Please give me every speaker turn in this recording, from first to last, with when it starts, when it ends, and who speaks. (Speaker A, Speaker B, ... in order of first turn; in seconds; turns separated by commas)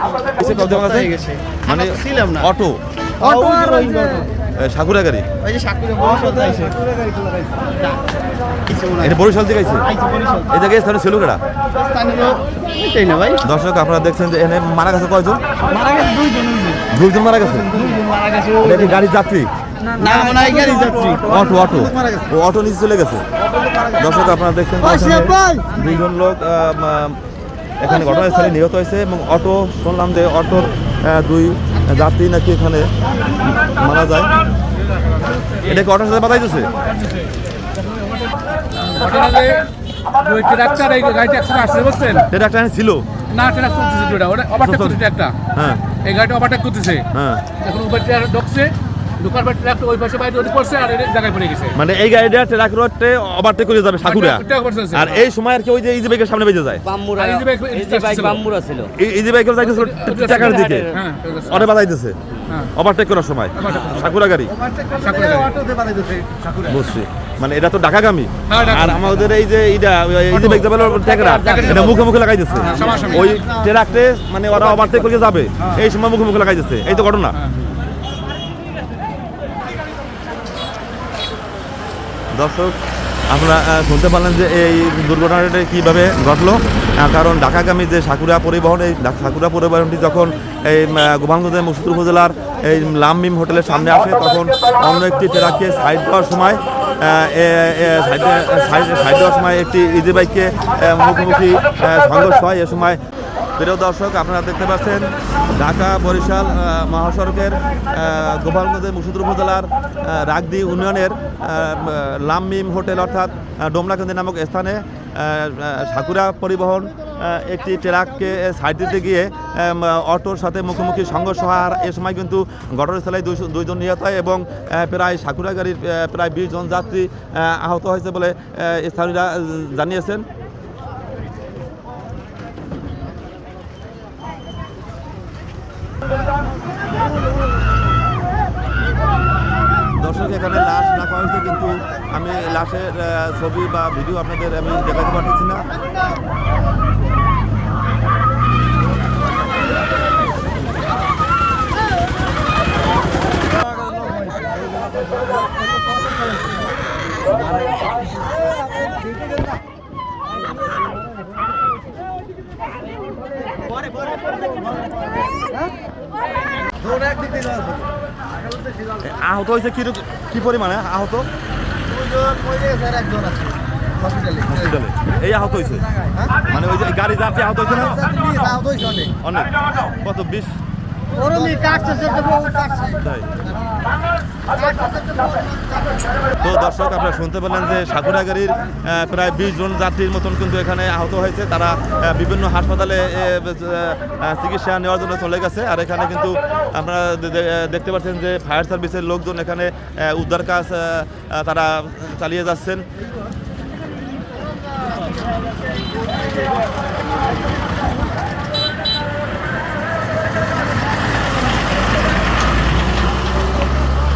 Speaker A: 0.3-1.1, Speaker B: 0.4-2.5, Speaker A: 1.6-3.6, Speaker B: 3.2-4.3, Speaker A: 4.6-5.2, Speaker B: 5.4-8.0, Speaker B: 8.6-9.2, Speaker A: 9.0-9.9, Speaker B: 9.9-10.5, Speaker A: 10.5-11.4, Speaker B: 11.7-13.4, Speaker A: 13.4-15.4, Speaker B: 15.7-16.8, Speaker A: 16.9-17.7, Speaker B: 17.5-18.9, Speaker A: 18.6-19.5, Speaker B: 20.0-22.3, Speaker A: 21.2-23.2, Speaker B: 23.4-24.3, Speaker A: 24.0-27.2, Speaker B: 24.8-25.8, Speaker A: 27.8-32.9, Speaker A: 33.4-34.3, Speaker A: 35.6-36.7, Speaker C: 38.8-39.7, Speaker C: 40.2-42.2, Speaker A: 42.3-43.0, Speaker C: 43.3-45.4, Speaker A: 44.6-45.0, Speaker A: 45.5-45.8, Speaker C: 46.0-47.1, Speaker A: 47.1-47.4, Speaker C: 47.6-51.8, Speaker A: 51.7-56.8, Speaker C: 54.0-55.2, Speaker D: 56.9-58.9, Speaker C: 57.1-58.4, Speaker A: 58.9-60.9, Speaker C: 59.6-61.7, Speaker D: 60.2-61.0, Speaker A: 61.5-62.2, Speaker A: 62.7-64.5, Speaker C: 63.6-63.9, Speaker D: 63.7-64.0, Speaker B: 64.5-66.8, Speaker C: 65.0-65.5, Speaker A: 66.7-77.4, Speaker C: 68.5-69.1, Speaker C: 70.3-70.9, Speaker D: 71.0-72.0, Speaker C: 71.5-72.0, Speaker B: 72.5-73.9, Speaker C: 72.7-73.3, Speaker A: 82.3-82.8, Speaker A: 83.3-103.0, Speaker A: 103.6-130.2, Speaker A: 140.0-145.7, Speaker B: 166.8-167.9, Speaker A: 169.0-171.3, Speaker B: 171.9-174.8, Speaker A: 174.5-175.9, Speaker B: 176.1-176.3, Speaker A: 176.5-178.0, Speaker B: 177.8-179.1, Speaker A: 179.2-180.5, Speaker B: 181.2-183.8, Speaker A: 183.0-183.3, Speaker B: 184.5-186.0, Speaker A: 186.4-202.8